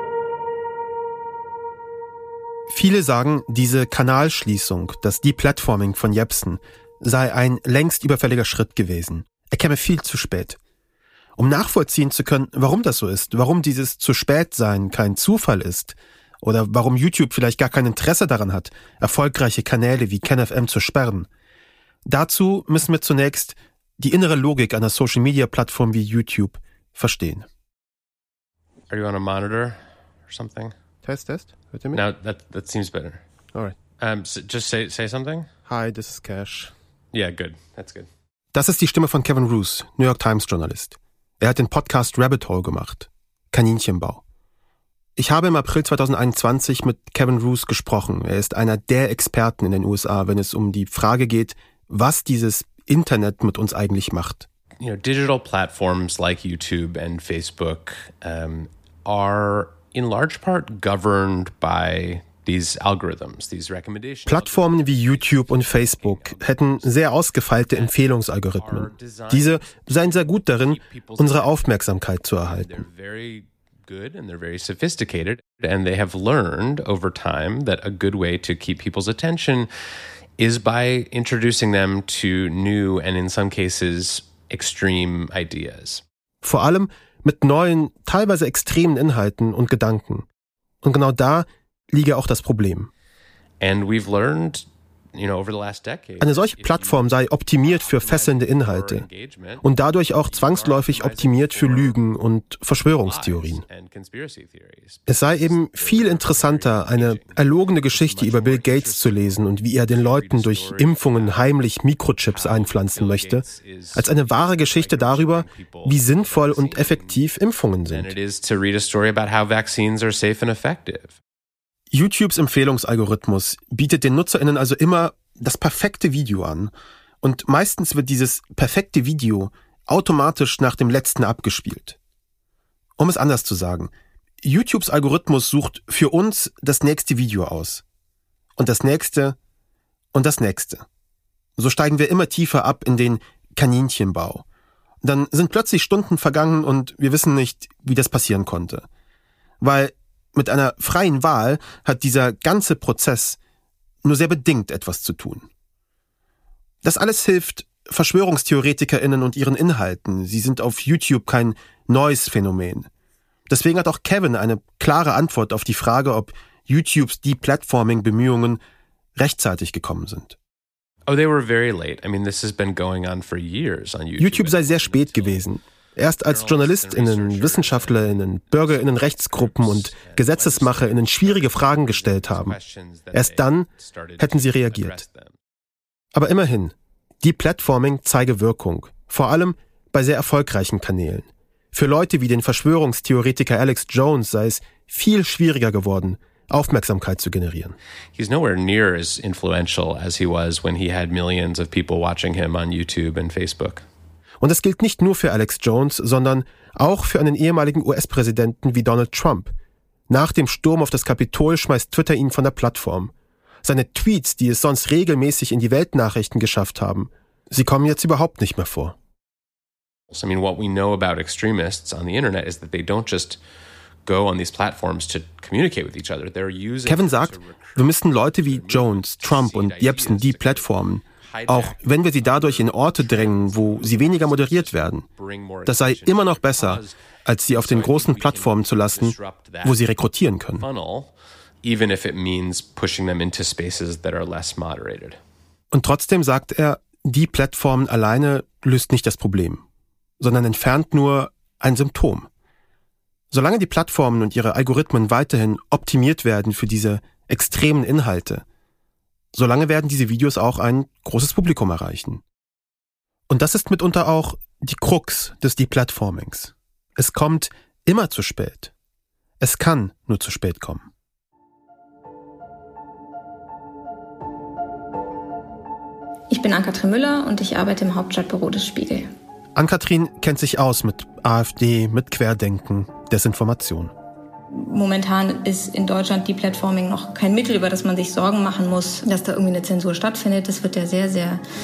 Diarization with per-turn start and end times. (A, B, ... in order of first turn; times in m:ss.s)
0:02.7-0:10.6 A
0:11.4-0:21.3 A
0:22.0-0:27.4 A
0:28.9-0:30.7 B
0:31.0-0:32.0 A
0:31.9-0:33.2 B
0:34.0-0:35.5 B
0:35.6-0:36.7 A
0:37.1-0:38.1 B
0:38.5-0:44.2 A
0:45.2-0:54.4 A
0:54.8-1:07.0 B
1:04.2-1:12.8 A
1:07.7-1:08.0 B
1:08.5-1:09.9 B
1:10.6-1:11.6 B
1:12.4-1:19.7 B
1:20.4-1:26.0 B
1:26.4-1:30.2 A
1:30.8-1:32.9 A
1:33.6-1:39.6 B
1:36.2-1:39.1 A
1:39.6-1:43.6 A
1:40.2-1:42.0 B
1:43.0-1:51.5 B
1:45.1-1:58.1 A
1:52.3-1:57.2 B
1:57.9-2:01.2 B
2:01.9-2:12.0 A
2:13.0-2:13.9 A
2:14.4-2:17.8 A
2:18.6-2:19.4 A
2:20.1-2:20.8 A
2:21.6-2:24.4 A
2:25.0-2:28.8 A
2:29.6-2:33.4 A
2:34.0-2:35.5 A
2:36.8-2:42.9 A
2:43.5-2:48.6 A
2:49.2-2:50.4 A
2:51.1-2:55.4 B
2:54.2-3:02.6 A
2:56.2-3:05.3 B
3:03.1-3:03.7 A
3:04.2-3:05.0 A
3:06.1-3:17.8 A
3:18.1-3:23.8 B
3:24.4-3:29.5 A
3:30.1-3:33.1 A
3:33.6-3:39.0 A
3:40.1-3:43.4 B
3:44.0-3:57.0 B
3:46.8-3:55.0 A
3:55.6-4:00.6 A
3:57.5-3:59.8 B
4:00.6-4:01.1 B
4:01.6-4:05.2 B
4:05.7-4:09.6 A
4:10.2-4:12.3 A
4:13.3-4:18.4 A
4:19.3-4:22.2 A
4:23.3-4:28.7 A
4:29.4-4:30.9 A
4:36.3-4:39.1 C
4:39.6-4:43.9 A
4:44.5-4:51.4 C